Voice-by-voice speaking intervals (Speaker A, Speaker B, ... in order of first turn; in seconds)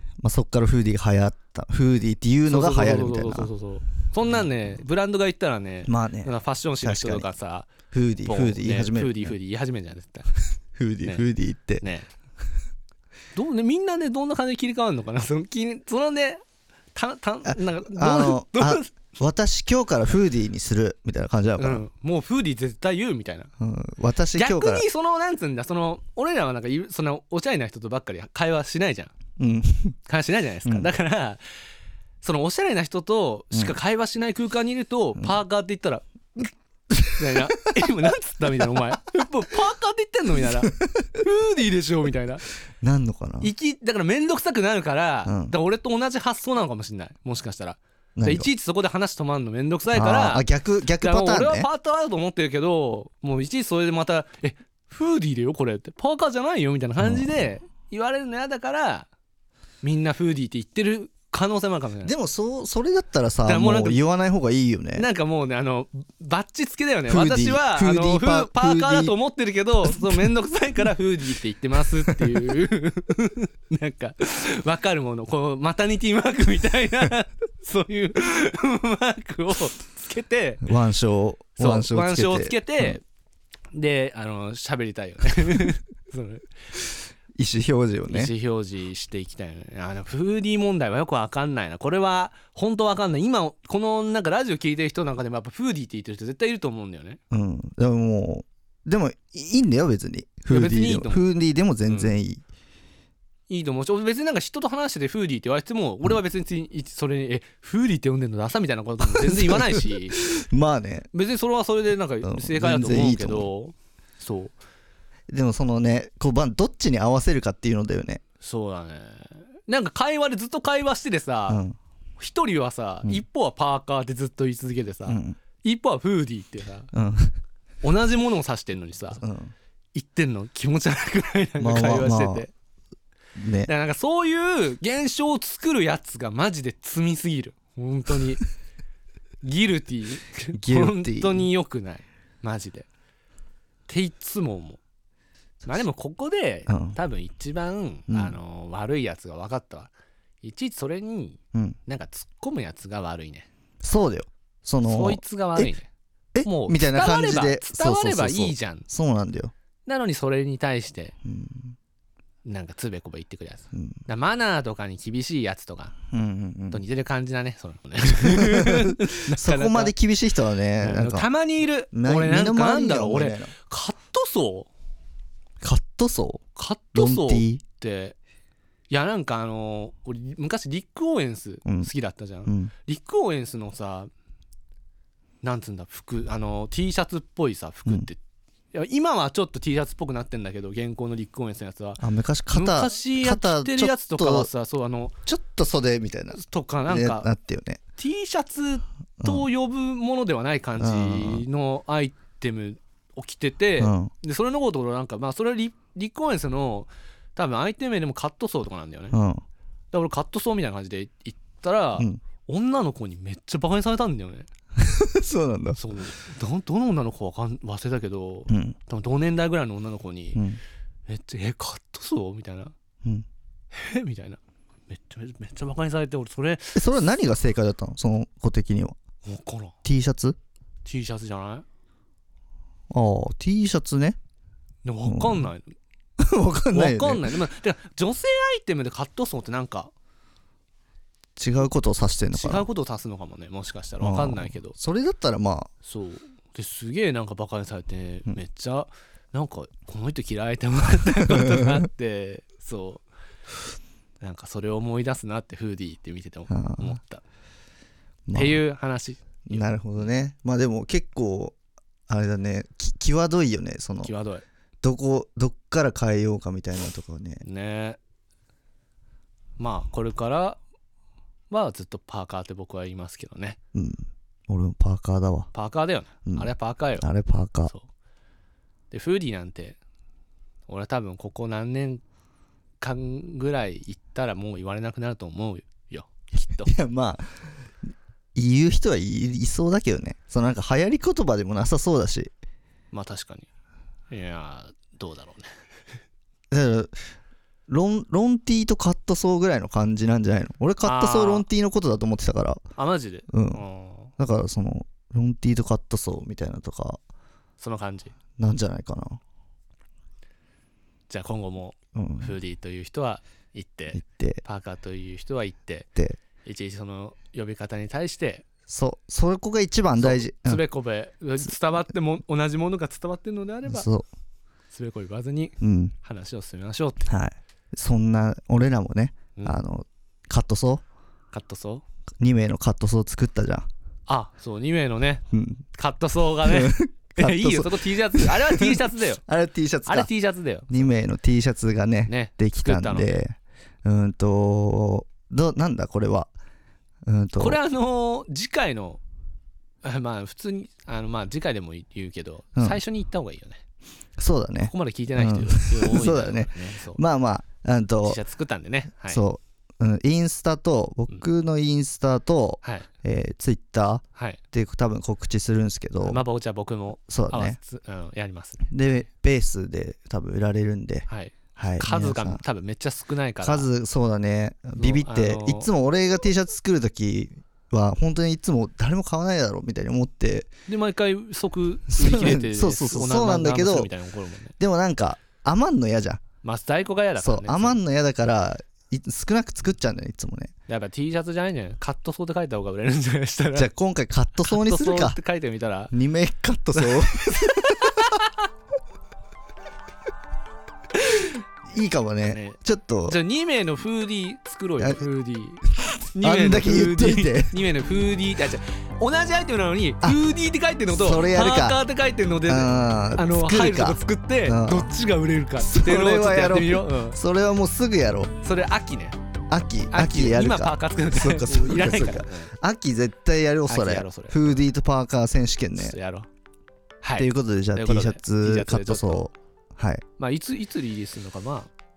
Speaker A: 0.2-3.5, 5.8-7.3, 7.9-9.3, 10.8-11.8, 17.4-21.8, 23.6-24.9, 29.4-29.9, 33.5-33.8, 37.1-37.4, 40.8-41.1, 42.8-43.5, 45.2-45.5, 48.1-48.5, 49.9-51.7, 57.0-57.3, 62.0-65.0, 67.1-69.1, 69.8-70.3, 72.1-72.4, 80.6-83.0, 87.4-88.3, 97.3-102.4, 109.0-111.1, 112.2-113.5, 115.3-118.2, 121.5-121.8, 125.1-125.4, 126.9-127.3, 129.2-129.5, 131.6-132.5, 133.4-133.7, 140.5-141.5, 146.7-147.0, 148.1-148.4, 153.8-155.7, 156.3-159.5, 161.2-161.8, 163.7-164.0, 166.1-166.8, 168.1-171.3, 171.9-173.5, 175.6-176.4, 176.9-177.6, 181.7-181.9, 182.4-182.7, 192.0-194.5, 195.2-197.8, 199.2-199.5, 200.8-201.4, 203.8-204.1, 209.1-209.4, 214.8-215.8, 218.5-218.8, 220.3-220.6, 226.7-229.0, 229.8-230.4, 232.9-234.2, 235.0-235.5, 236.2-237.4, 241.4-242.7, 244.0-245.7, 251.3-251.8, 256.5-257.0, 258.3-258.6, 259.5-261.6, 262.1-264.1, 264.8-267.4, 273.7-275.5, 276.2-277.7, 286.5-287.3, 288.3-292.3, 296.5-297.1, 297.7-302.6, 303.3-303.6, 304.2-307.0, 308.4-309.2, 311.9-312.4, 313.9-314.4, 318.7-320.6, 323.6-324.1, 325.6-325.9, 327.1-330.8, 332.2-333.7, 335.3-335.6, 336.4-340.1, 340.7-346.3, 347.1-347.6, 352.6-352.8, 354.2-358.2, 359.1-366.2, 367.1-367.6, 368.7-372.4, 373.4-380.5, 381.9-383.9, 384.6-386.2, 387.2-390.5, 393.5-395.2, 395.9-398.0, 401.7-403.2, 406.2-407.6, 410.9-411.8, 412.4-414.9, 415.6-418.3, 419.5-426.0, 427.1-430.0
Speaker B: 2.5-7.7, 8.2-10.3, 11.8-12.1, 13.3-16.4, 16.9-18.9, 21.6-23.5, 24.3-29.1, 30.1-31.4, 32.2-36.5, 37.1-42.4, 43.4-50.5, 51.0-59.1, 59.8-62.1, 63.4-64.0, 64.9-80.7, 81.6-83.0, 83.7-86.4, 88.1-97.2, 100.5-101.2, 101.9-102.1, 103.5-110.2, 111.1-114.5, 118.4-121.6, 122.2-126.9, 127.8-129.2, 129.9-132.5, 133.7-138.4, 139.4-142.9, 143.9-144.8, 145.6-149.9, 150.4-153.5, 154.8-155.9, 156.4-158.8, 159.8-161.1, 162.4-166.0, 166.7-169.9, 170.8-174.7, 176.5-178.2, 178.9-184.1, 185.4-188.2, 188.7-195.1, 196.3-197.3, 198.0-209.2, 209.9-214.5, 215.7-220.4, 221.1-222.7, 223.7-226.8, 229.2-229.7, 230.8-231.6, 234.8-235.8, 236.7-239.9, 242.3-244.7, 245.8-253.0, 254.2-257.2, 258.3-260.1, 264.0-264.4, 267.4-268.0, 269.6-270.6, 271.5-273.6, 275.5-277.1, 278.9-279.8, 280.7-282.0, 282.8-286.7, 292.9-293.5, 294.1-295.5, 300.8-301.5, 302.8-304.1, 307.6-308.1, 311.1-315.9, 316.4-318.4, 320.0-323.9, 324.7-327.1, 331.3-331.8, 334.1-335.2, 335.7-339.2, 339.9-340.9, 342.1-343.2, 347.4-349.0, 349.8-353.6, 354.6-357.0, 358.0-359.2, 364.1-364.4, 366.0-368.7, 371.1-373.7, 374.8-375.7, 380.7-384.5, 386.4-387.8, 390.7-393.7, 394.4-395.9, 396.7-398.3, 402.2-417.2, 418.4-419.2, 419.9-422.5, 423.7-424.6, 425.8-426.3, 427.0-429.3, 430.2-431.7